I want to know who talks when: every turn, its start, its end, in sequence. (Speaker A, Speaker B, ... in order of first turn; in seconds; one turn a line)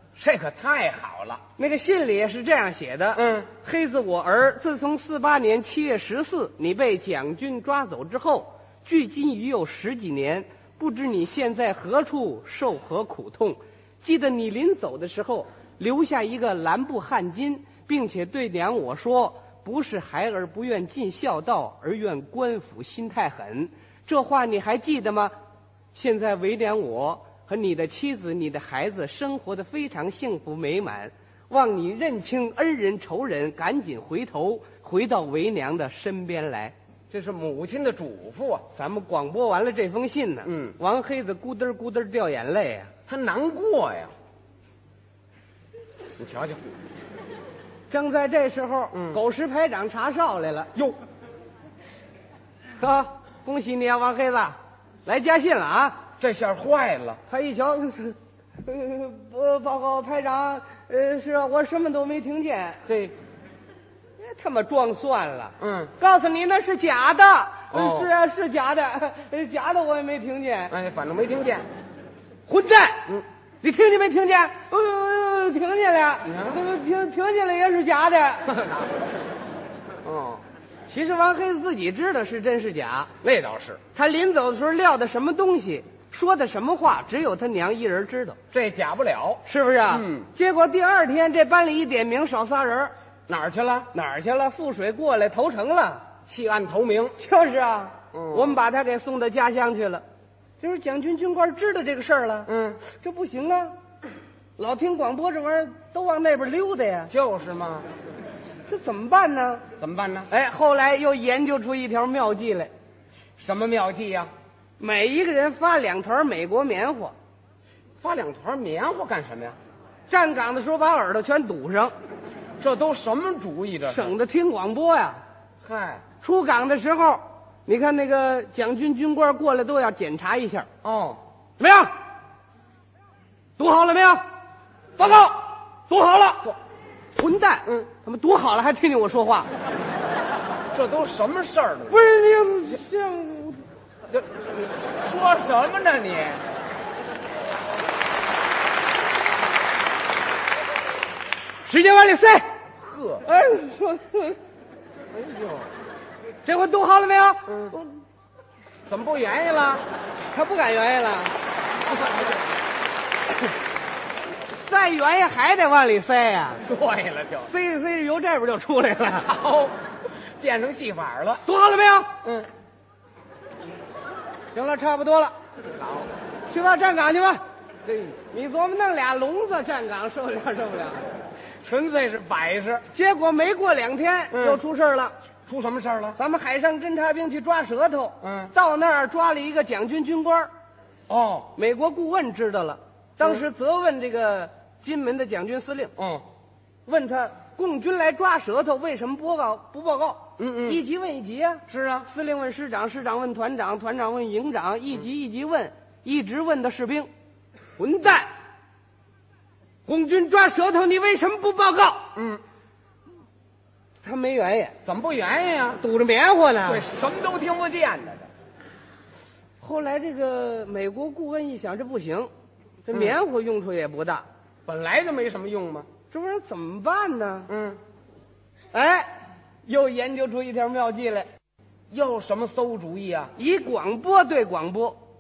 Speaker A: 0.2-1.4
Speaker B: 1.6-25.3
Speaker A: 3.1-3.5
Speaker B: 25.9-36.7
Speaker A: 37.1-38.6
Speaker B: 38.7-42.9
Speaker A: 40.4-40.8
Speaker A: 43.1-44.1
Speaker A: 46.2-46.8
Speaker B: 47.9-50.7
Speaker A: 48.9-49.2
Speaker B: 52.8-56.0
Speaker A: 56.2-57.2
Speaker B: 57.3-62.8
Speaker A: 62.9-63.1
Speaker B: 64.2-70.7
Speaker A: 65.6-65.9
Speaker A: 67.7-68.1
Speaker A: 70.7-71.7
Speaker B: 72.5-73.1
Speaker B: 73.6-78.6
Speaker A: 76.2-76.6
Speaker A: 78.5-79.0
Speaker A: 80.0-80.4
Speaker B: 80.9-83.1
Speaker A: 83.2-83.8
Speaker B: 83.9-88.4
Speaker A: 88.5-90.3
Speaker B: 89.4-92.9
Speaker A: 93.3-93.9
Speaker B: 93.9-96.0
Speaker A: 96.2-97.2
Speaker B: 97.2-100.0
Speaker A: 98.1-98.6
Speaker B: 100.6-103.7
Speaker A: 102.5-102.8
Speaker B: 104.6-107.1
Speaker A: 107.1-107.9
Speaker B: 108.7-109.6
Speaker A: 109.8-110.3
Speaker B: 110.3-112.7
Speaker A: 113.4-114.3
Speaker B: 114.8-117.1
Speaker A: 118.0-119.6
Speaker B: 120.1-121.9
Speaker A: 122.6-124.1
Speaker B: 123.9-125.2
Speaker A: 125.6-126.0
Speaker B: 126.2-130.7
Speaker A: 130.8-131.2
Speaker B: 131.6-131.9
Speaker B: 133.6-134.2
Speaker B: 135.0-136.5
Speaker B: 137.1-139.5
Speaker A: 140.7-142.0
Speaker B: 141.9-143.6
Speaker A: 144.1-146.4
Speaker B: 151.6-152.4
Speaker A: 152.8-153.3
Speaker B: 153.2-154.4
Speaker A: 155.1-155.7
Speaker B: 156.4-157.9
Speaker A: 157.5-157.7
Speaker A: 158.8-159.8
Speaker B: 160.3-161.3
Speaker A: 162.0-162.3
Speaker B: 164.6-166.6
Speaker A: 166.6-167.5
Speaker B: 167.4-169.3
Speaker A: 169.2-169.7
Speaker A: 170.4-171.4
Speaker B: 171.4-172.1
Speaker A: 172.2-172.5
Speaker B: 174.5-175.3
Speaker A: 175.7-176.1
Speaker B: 176.5-177.4
Speaker A: 177.8-178.2
Speaker B: 178.2-181.0
Speaker A: 181.6-182.8
Speaker B: 182.9-185.1
Speaker A: 184.3-184.6
Speaker A: 185.5-186.2
Speaker B: 186.2-190.5
Speaker A: 188.2-188.5
Speaker A: 191.1-191.5
Speaker B: 191.5-195.9
Speaker A: 196.0-196.2
Speaker B: 196.9-207.1
Speaker A: 200.4-200.8
Speaker A: 201.7-202.1
Speaker B: 207.8-208.3
Speaker B: 209.9-212.0
Speaker A: 212.1-212.4
Speaker B: 214.0-214.8
Speaker A: 214.8-215.8
Speaker B: 215.8-216.9
Speaker A: 216.6-218.3
Speaker B: 219.6-222.3
Speaker B: 222.8-224.2
Speaker A: 224.7-225.9
Speaker B: 226.1-227.5
Speaker A: 227.5-227.8
Speaker B: 228.7-229.1
Speaker B: 229.7-231.3
Speaker A: 231.9-233.3
Speaker B: 233.3-235.0